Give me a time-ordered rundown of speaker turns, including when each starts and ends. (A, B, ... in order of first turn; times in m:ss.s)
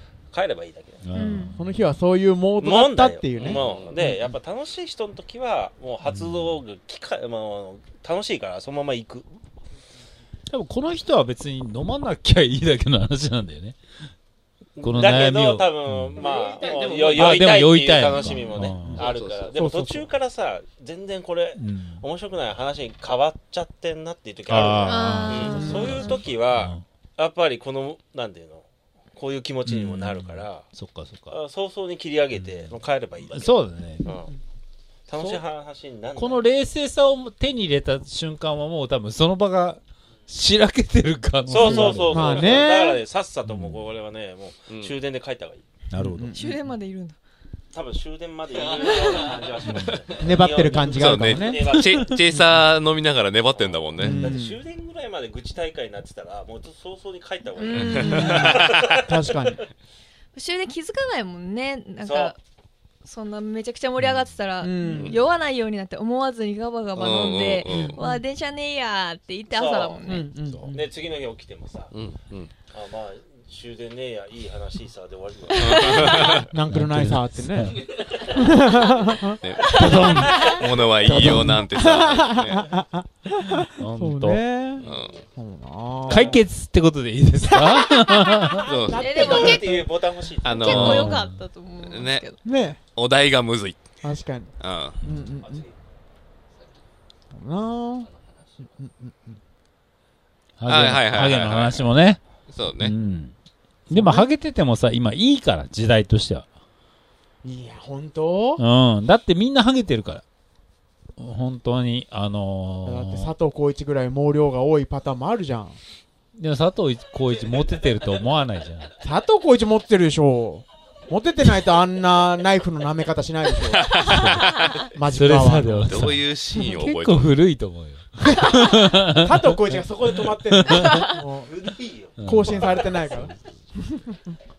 0:00.3-0:01.0 A
0:01.0-0:01.9 B
0:01.2-0:01.5 C
0:01.6-0:04.3 D
0:02.6-0:09.3 A
0:03.4-0:04.0 E
0:06.1-0:06.6 B
0:10.5-0:13.8 B
0:14.8-0:30.7 A
0:14.8-0:16.3 B
0:16.2-0:17.6 E
0:17.1-0:19.0 B
0:18.9-0:19.6 E
0:19.6-0:20.1 D
0:21.6-0:22.0 B
0:24.5-0:26.8 B
0:24.8-0:26.2 C
0:25.5-0:25.9 D
0:29.7-0:31.4 B
0:31.3-0:34.3 A
0:33.3-0:34.1 B
0:35.1-0:36.5 A
0:36.2-0:42.6 B
0:41.5-0:45.7 A
0:42.0-0:43.0 D
0:43.5-0:43.8 B
0:45.9-0:46.5 B
0:46.0-0:46.6 D
0:46.4-0:47.2 C
0:47.7-0:52.0 A
0:49.7-0:49.9 B
0:50.2-0:52.6 D
0:50.9-0:54.3 E
0:53.5-0:59.4 A
0:54.0-0:54.6 D
0:57.6-0:58.5 C
0:57.7-0:58.8 E
0:58.0-0:59.6 D
1:00.3-1:02.4 C
1:02.0-1:02.3 A
1:03.0-1:10.3 C
1:04.6-1:05.2 D
1:04.9-1:05.2 E
1:06.9-1:08.0 E
1:09.5-1:10.1 A
1:10.1-1:10.7 D
1:10.5-1:10.9 B
1:10.7-1:11.9 A
1:11.9-1:12.5 E
1:12.7-1:16.3 A
1:15.5-1:16.5 E
1:15.8-1:16.2 C
1:16.5-1:20.1 D
1:16.7-1:17.8 B
1:19.4-1:22.7 E
1:19.7-1:21.6 B
1:21.0-1:26.4 D
1:23.8-1:24.4 B
1:24.8-1:25.2 E
1:26.1-1:28.6 B
1:26.1-1:26.4 A
1:27.5-1:29.9 D
1:28.6-1:29.5 E
1:29.0-1:30.9 A
1:29.0-1:29.6 C
1:30.4-1:31.2 E
1:30.6-1:32.4 C
1:30.7-1:31.4 B
1:31.8-1:32.3 E
1:32.4-1:32.8 D
1:33.0-1:33.8 E
1:34.0-1:35.6 D
1:34.6-1:35.0 E
1:35.4-1:35.7 A
1:37.3-1:38.1 D
1:38.7-1:39.4 D
1:40.6-1:42.2 B
1:40.7-1:41.9 E
1:42.5-1:42.9 E
1:42.8-1:43.3 B
1:43.9-1:46.5 B
1:43.9-1:44.3 D
1:47.4-1:48.6 D
1:48.6-1:50.2 B
1:51.2-1:53.3 B
1:52.8-1:55.8 D
1:56.4-1:58.9 B
1:59.0-2:04.0 D
2:03.7-2:04.9 E
2:04.1-2:04.5 B
2:04.8-2:06.1 D
2:05.1-2:11.2 B
2:05.9-2:07.4 E
2:08.3-2:11.5 D
2:11.4-2:12.9 A
2:12.2-2:12.9 B
2:12.2-2:14.4 D